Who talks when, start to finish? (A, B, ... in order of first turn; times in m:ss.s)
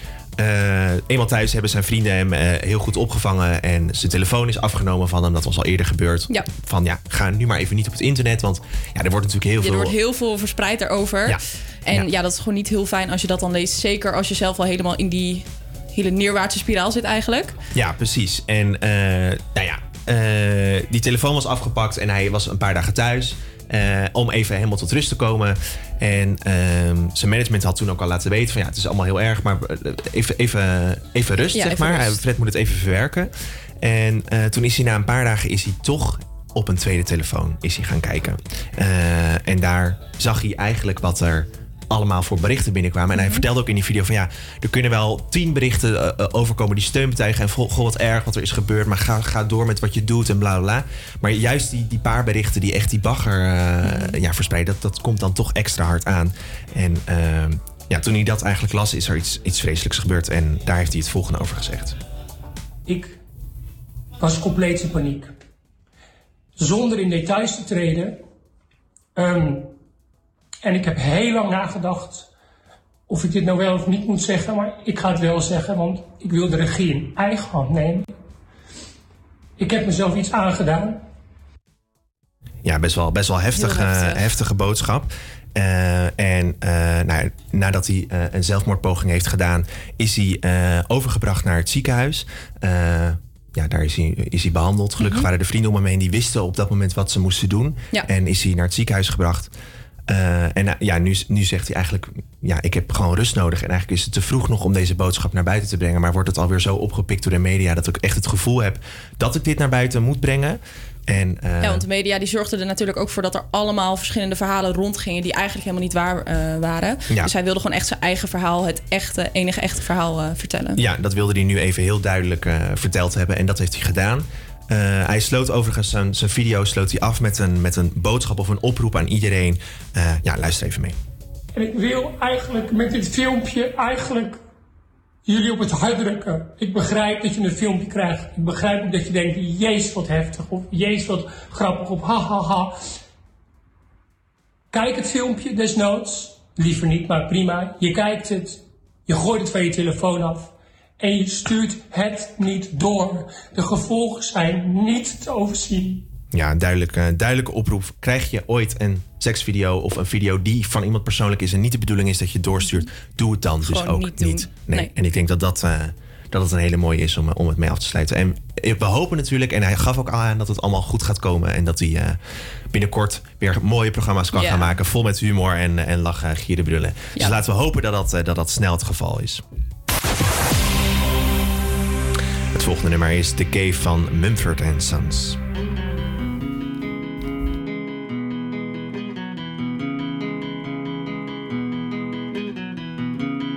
0:00.4-0:10.0 A
0:09.6-0:17.6 B
0:11.3-0:12.1 A
0:17.7-1:02.0 A
0:31.5-0:32.2 B
0:43.2-0:43.4 B
0:53.8-0:54.2 B
1:02.9-1:03.2 C
1:04.2-1:05.3 C
1:06.6-1:08.2 C
1:09.2-1:09.7 C
1:10.6-1:12.3 C
1:13.1-1:18.1 C
1:19.6-1:21.0 C
1:22.6-1:39.5 A
1:23.6-1:24.2 B
1:35.0-1:35.3 B
1:40.1-1:51.8 A
1:51.6-2:00.8 B
2:00.8-2:11.0 A
2:11.6-2:14.4 C
2:15.3-2:22.8 C
2:24.7-2:36.0 C
2:36.3-2:52.2 A
2:43.6-2:44.9 B
2:52.7-2:59.4 A
2:54.3-2:54.8 B
3:02.5-3:05.4 A